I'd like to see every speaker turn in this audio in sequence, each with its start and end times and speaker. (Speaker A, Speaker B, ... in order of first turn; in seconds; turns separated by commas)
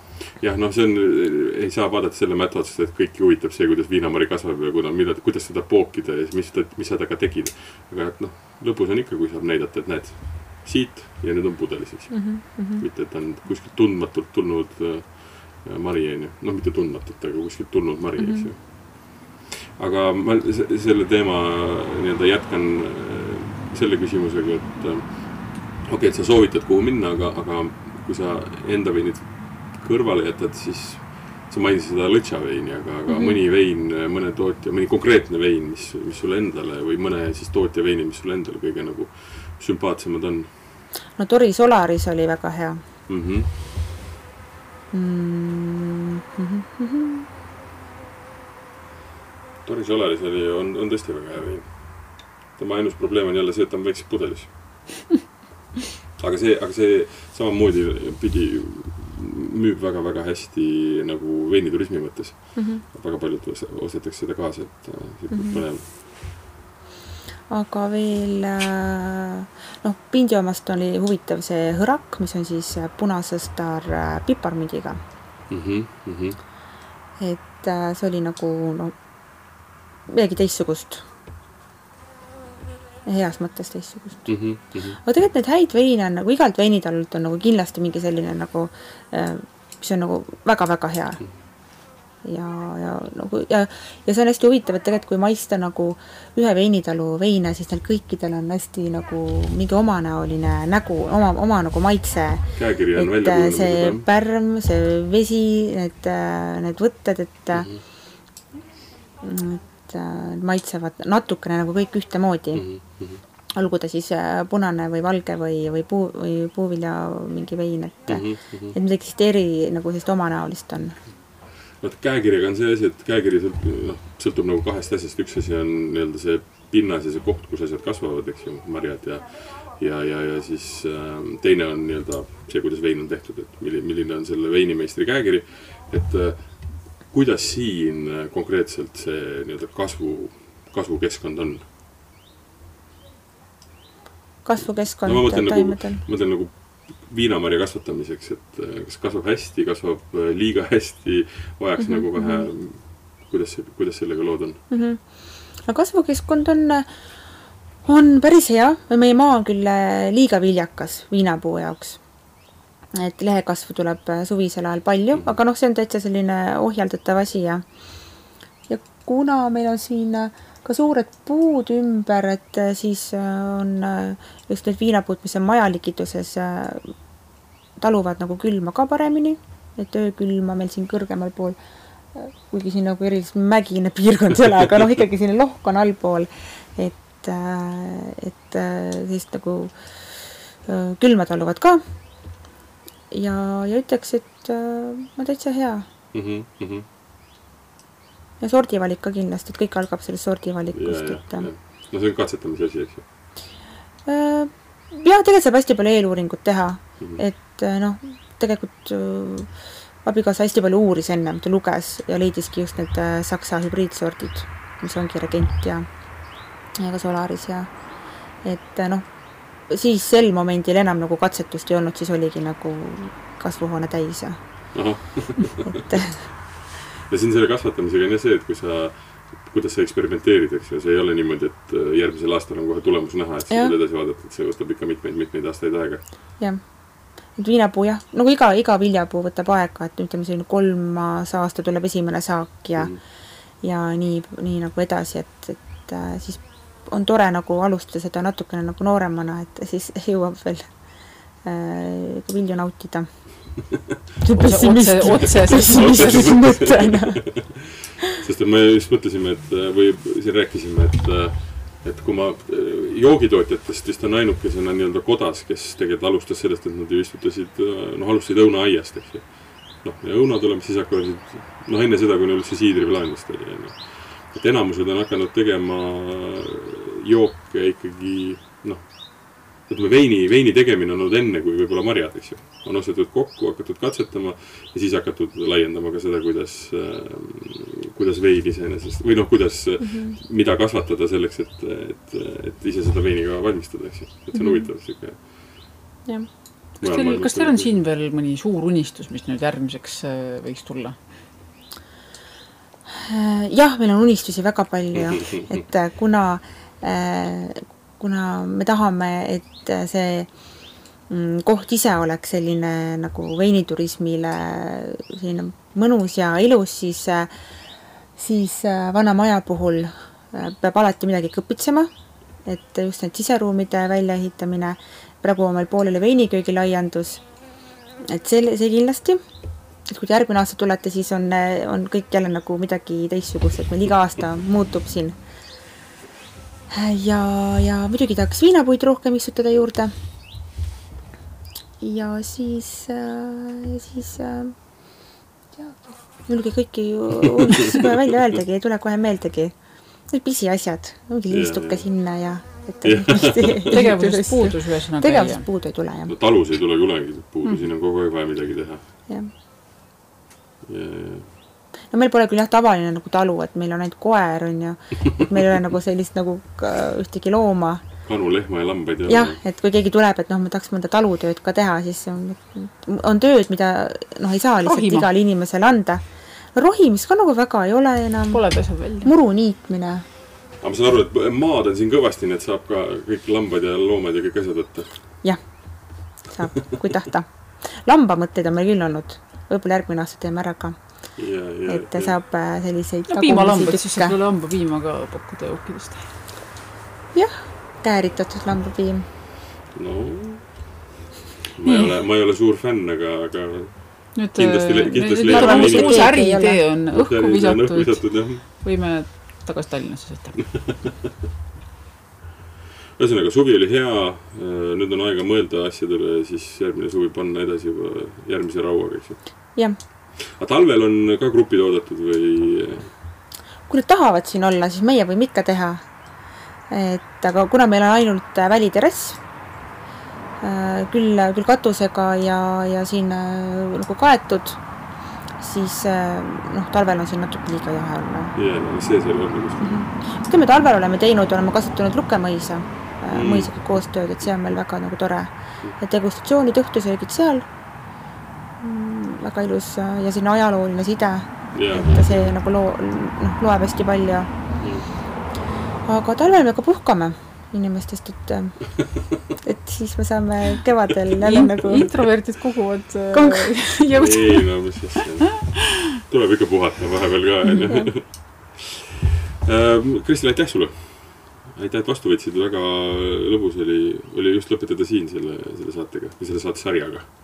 Speaker A: 0.4-40.5, Speaker B: 12.1-12.8, Speaker B: 18.2-18.5, Speaker B: 33.1-33.4, Speaker B: 41.2-42.8, Speaker A: 43.1-43.5, Speaker B: 44.9-47.2, Speaker A: 49.6-54.8, Speaker A: 56.2-65.9, Speaker B: 62.5-62.8, Speaker B: 65.3-65.6, Speaker B: 67.5-75.0, Speaker A: 75.5-76.4, Speaker B: 77.2-78.9, Speaker B: 80.1-81.0, Speaker B: 83.0-84.4, Speaker A: 84.3-85.0, Speaker B: 85.0-91.2, Speaker B: 92.2-107.7, Speaker A: 102.5-104.0, Speaker A: 107.5-107.8, Speaker B: 109.2-112.6, Speaker A: 112.5-113.2, Speaker B: 113.5-121.0, Speaker A: 118.1-118.7, Speaker A: 121.8-141.7, Speaker B: 144.4-146.0, Speaker A: 145.0-154.6, Speaker B: 151.8-152.5, Speaker B: 154.7-155.1, Speaker B: 155.6-156.9, Speaker B: 157.8-162.0, Speaker B: 162.9-167.6, Speaker B: 168.7-176.9, Speaker B: 177.8-181.6, Speaker B: 182.1-189.7, Speaker B: 190.6-191.8, Speaker B: 193.1-195.8, Speaker A: 196.1-196.8, Speaker B: 198.4-201.5, Speaker A: 200.7-203.0, Speaker B: 204.1-209.5, Speaker B: 210.0-215.8, Speaker B: 216.8-217.7, Speaker B: 218.4-219.1, Speaker B: 219.7-224.4, Speaker A: 224.7-225.9, Speaker B: 225.8-226.2, Speaker A: 227.1-236.1, Speaker B: 237.3-243.0, Speaker B: 243.6-250.7, Speaker B: 251.4-253.6, Speaker B: 254.2-257.2, Speaker C: 254.4-256.4, Speaker A: 255.4-295.7, Speaker B: 289.8-290.2, Speaker B: 294.3-294.7, Speaker C: 296.8-301.0, Speaker A: 296.8-297.8, Speaker B: 302.9-310.3, Speaker A: 304.9-305.6, Speaker B: 311.1-317.3, Speaker B: 318.1-321.9, Speaker B: 322.4-327.2, Speaker B: 328.0-329.2, Speaker B: 329.9-335.2, Speaker B: 336.7-339.9, Speaker B: 341.8-344.5, Speaker B: 345.5-349.5, Speaker A: 347.4-348.0, Speaker B: 350.1-356.1, Speaker A: 351.3-351.9, Speaker A: 352.8-353.8, Speaker C: 353.7-355.5, Speaker A: 356.1-358.8, Speaker A: 360.6-361.3, Speaker B: 361.9-367.8, Speaker A: 368.0-369.4, Speaker B: 369.1-376.0, Speaker C: 374.6-375.1, Speaker B: 376.5-380.0, Speaker C: 378.3-379.1, Speaker A: 380.6-385.0, Speaker B: 385.2-390.8, Speaker A: 391.2-392.2, Speaker B: 391.6-394.1, Speaker C: 393.1-396.1, Speaker B: 397.1-399.1, Speaker A: 399.7-400.7, Speaker A: 401.5-406.2, Speaker C: 401.6-401.9, Speaker C: 404.1-410.5, Speaker B: 405.2-406.6, Speaker A: 406.9-408.4, Speaker A: 410.6-410.9, Speaker A: 413.0-419.2, Speaker A: 420.3-422.9, Speaker B: 423.7-425.8, Speaker B: 426.7-429.2, Speaker B: 430.4-434.6, Speaker B: 435.4-438.3, Speaker A: 438.3-439.9, Speaker B: 439.6-447.4, Speaker A: 443.1-443.5, Speaker B: 448.6-454.3, Speaker A: 451.5-452.4, Speaker A: 454.6-454.9, Speaker B: 455.8-458.7, Speaker B: 459.3-461.9, Speaker C: 461.2-464.8, Speaker B: 463.1-463.6, Speaker A: 463.9-468.8, Speaker A: 469.4-477.1